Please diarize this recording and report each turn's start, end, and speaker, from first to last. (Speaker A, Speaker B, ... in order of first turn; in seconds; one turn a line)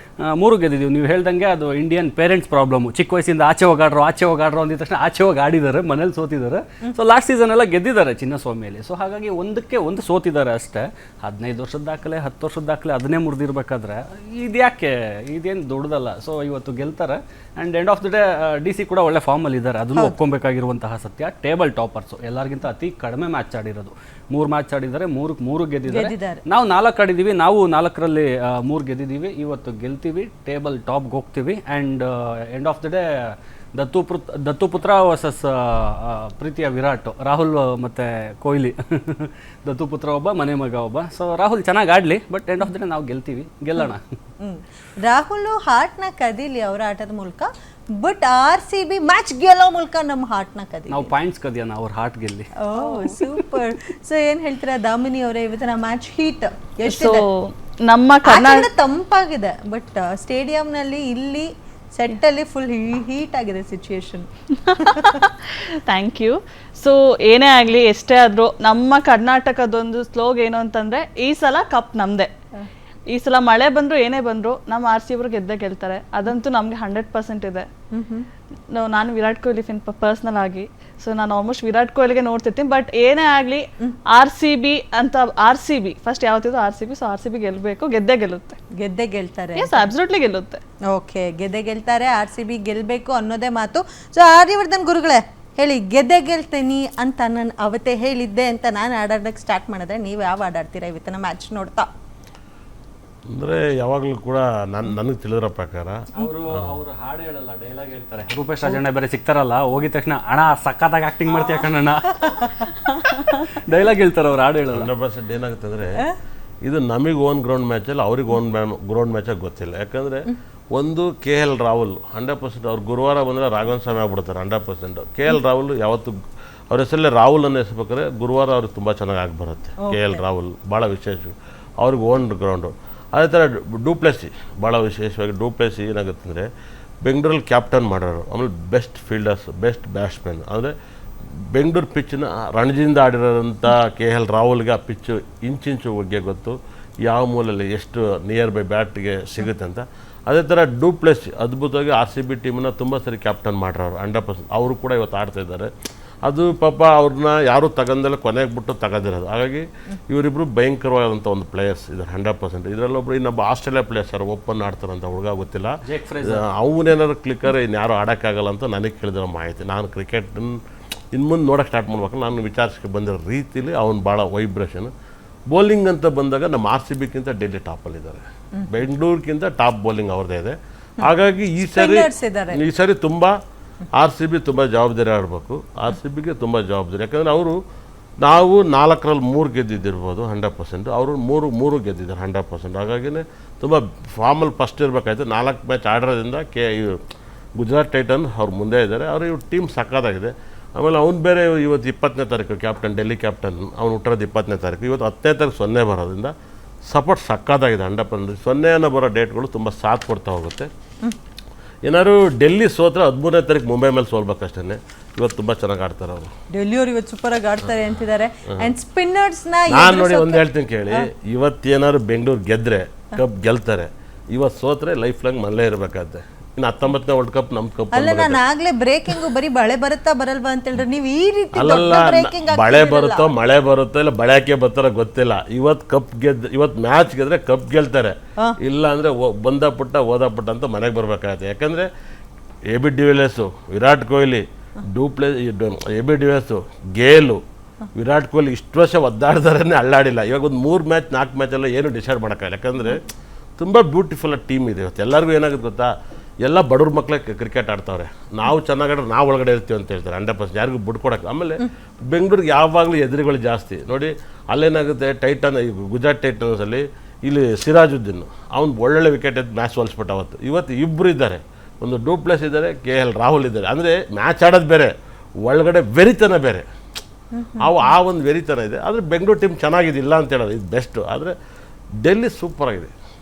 Speaker A: 0.2-33.0
Speaker B: 25.9-26.4
Speaker A: 33.8-44.0
Speaker B: 44.4-47.5
Speaker B: 48.0-51.1
Speaker A: 50.9-52.5
Speaker B: 52.6-57.2
Speaker C: 56.9-58.7
Speaker B: 58.2-64.3
Speaker C: 64.8-72.3
Speaker B: 64.8-65.2
Speaker C: 73.1-77.7
Speaker B: 77.9-78.3
Speaker C: 78.7-88.6
Speaker B: 88.8-89.9
Speaker C: 89.5-90.6
Speaker B: 90.9-101.9
Speaker D: 103.3-106.7
Speaker A: 106.2-114.9
Speaker D: 114.7-116.0
Speaker D: 116.6-126.2
Speaker D: 126.7-136.5
Speaker B: 129.8-130.2
Speaker D: 137.0-140.7
Speaker D: 141.5-155.7
Speaker D: 156.2-170.6
Speaker A: 165.8-166.5
Speaker D: 171.1-174.9
Speaker D: 175.5-183.3
Speaker B: 181.6-182.6
Speaker D: 183.9-187.6
Speaker D: 188.2-197.0
Speaker D: 197.6-206.3
Speaker D: 206.9-210.7
Speaker D: 211.8-216.3
Speaker B: 216.5-221.0
Speaker D: 219.7-228.4
Speaker B: 227.9-233.3
Speaker D: 231.5-241.9
Speaker D: 242.7-247.4
Speaker D: 247.9-253.0
Speaker D: 253.6-255.9
Speaker D: 256.4-274.9
Speaker D: 275.4-276.6
Speaker B: 277.3-277.8
Speaker D: 277.6-281.3
Speaker D: 282.0-282.9